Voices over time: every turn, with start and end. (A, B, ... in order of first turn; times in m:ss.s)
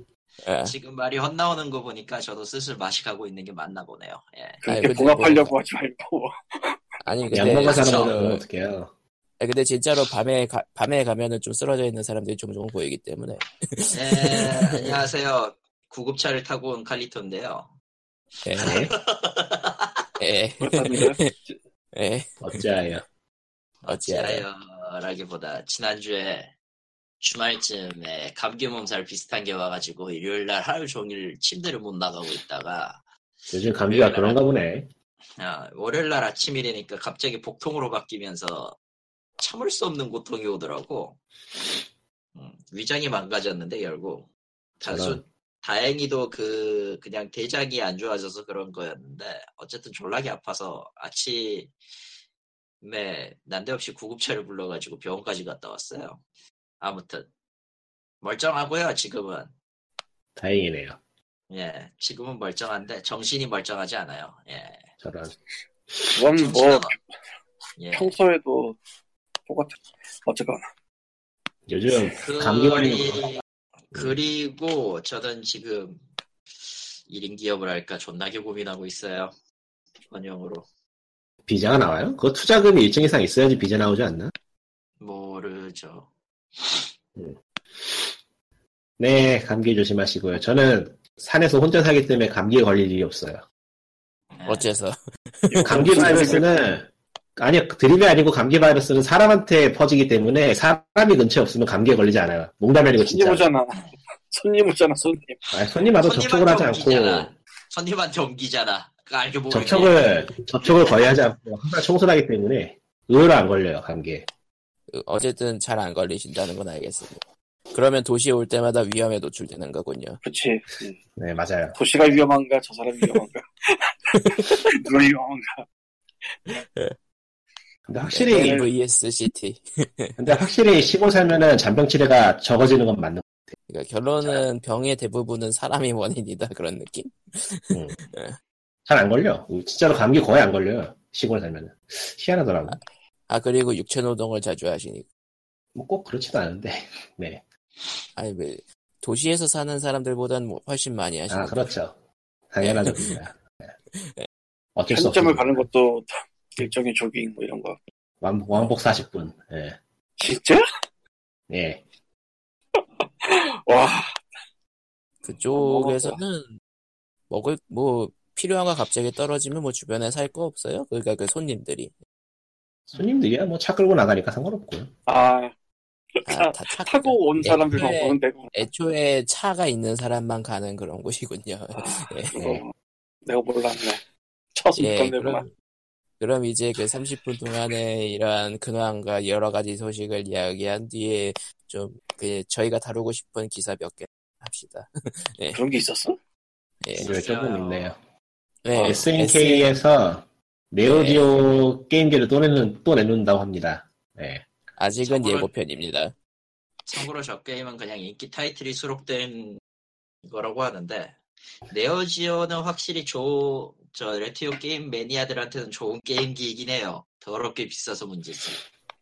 0:00.4-0:00.7 A
0:00.6-0:04.6 B
0:04.6-0:06.8 C
0:04.7-0:05.6 A
0:07.0-0:08.4 A
0:07.3-0:08.9 D
0:07.6-0:08.2 B
0:09.4-0:15.0 A
0:13.9-0:17.7 B
0:18.4-0:18.8 A
0:18.6-0:20.1 B
0:18.6-0:18.9 D
0:20.2-0:21.3 A
0:20.6-0:21.6 C
0:22.0-0:22.6 A
0:22.4-0:23.0 D
0:23.8-0:26.5 B
0:23.9-0:24.4 A
0:27.2-0:33.0 B
0:33.5-0:34.9 D
0:33.9-0:34.4 B
0:35.4-0:38.8 B
0:39.4-0:41.2 B
0:42.4-0:44.3 B
0:44.8-0:51.7 B
0:44.8-0:45.2 D
0:52.8-0:56.2 B
0:56.8-0:57.3 B
0:58.2-0:59.5 B
1:00.4-1:01.0 D
1:01.5-1:04.9 B
1:05.0-1:05.4 D
1:06.1-1:07.0 C
1:06.4-1:06.9 B
1:07.8-1:08.2 B
1:07.9-1:08.8 C
1:09.5-1:10.6 C
1:11.7-1:13.3 D
1:12.1-1:16.0 B
1:16.7-1:19.3 B
1:20.1-1:20.7 B
1:21.5-1:24.3 D
1:25.0-1:26.1 B
1:29.0-1:33.4 D
1:34.3-1:34.8 B
1:34.5-1:36.4 A
1:35.5-1:36.5 C
1:35.6-1:43.5 D
1:43.0-1:45.4 C
1:45.5-1:47.3 D
1:46.0-1:50.3 B
1:49.5-1:54.3 D
1:54.9-1:57.2 A
1:57.7-2:00.2 A
2:00.2-2:01.0 C
2:01.2-2:01.8 D
2:01.8-2:05.6 C
2:04.1-2:04.6 A
2:06.5-2:07.0 A
2:07.9-2:08.7 D
2:08.1-2:10.2 A
2:08.3-2:08.7 C
2:10.2-2:13.5 D
2:13.7-2:18.4 A
2:18.9-2:22.8 D
2:23.3-2:25.1 A
2:25.8-2:27.4 D
2:28.2-2:31.7 A
2:31.3-2:32.0 D
2:32.5-2:33.4 D
2:32.6-2:33.2 A
2:34.0-2:34.3 A
2:34.8-2:35.6 D
2:34.9-2:37.8 C
2:38.2-2:39.8 D
2:40.2-2:40.6 C
2:41.5-2:41.8 D
2:43.2-2:44.2 C
2:45.2-2:46.6 A
2:45.6-2:46.2 C
2:47.3-2:51.9 A
2:52.9-2:54.9 D
2:55.1-2:55.5 C
2:56.2-2:58.7 C
2:56.3-3:02.6 A
3:01.8-3:02.7 C
3:02.4-3:02.6 D
3:03.3-3:04.0 C
3:04.6-3:05.4 C
3:04.8-3:05.5 A
3:06.2-3:15.6 A
3:15.5-3:16.2 C
3:17.0-3:18.0 D
3:17.0-3:18.0 B
3:18.6-3:19.7 A
3:18.8-3:24.5 D
3:20.8-3:21.3 A
3:24.8-3:26.1 A
3:25.0-3:25.5 B
3:26.9-3:29.6 B
3:30.2-3:31.2 B
3:31.7-3:38.6 B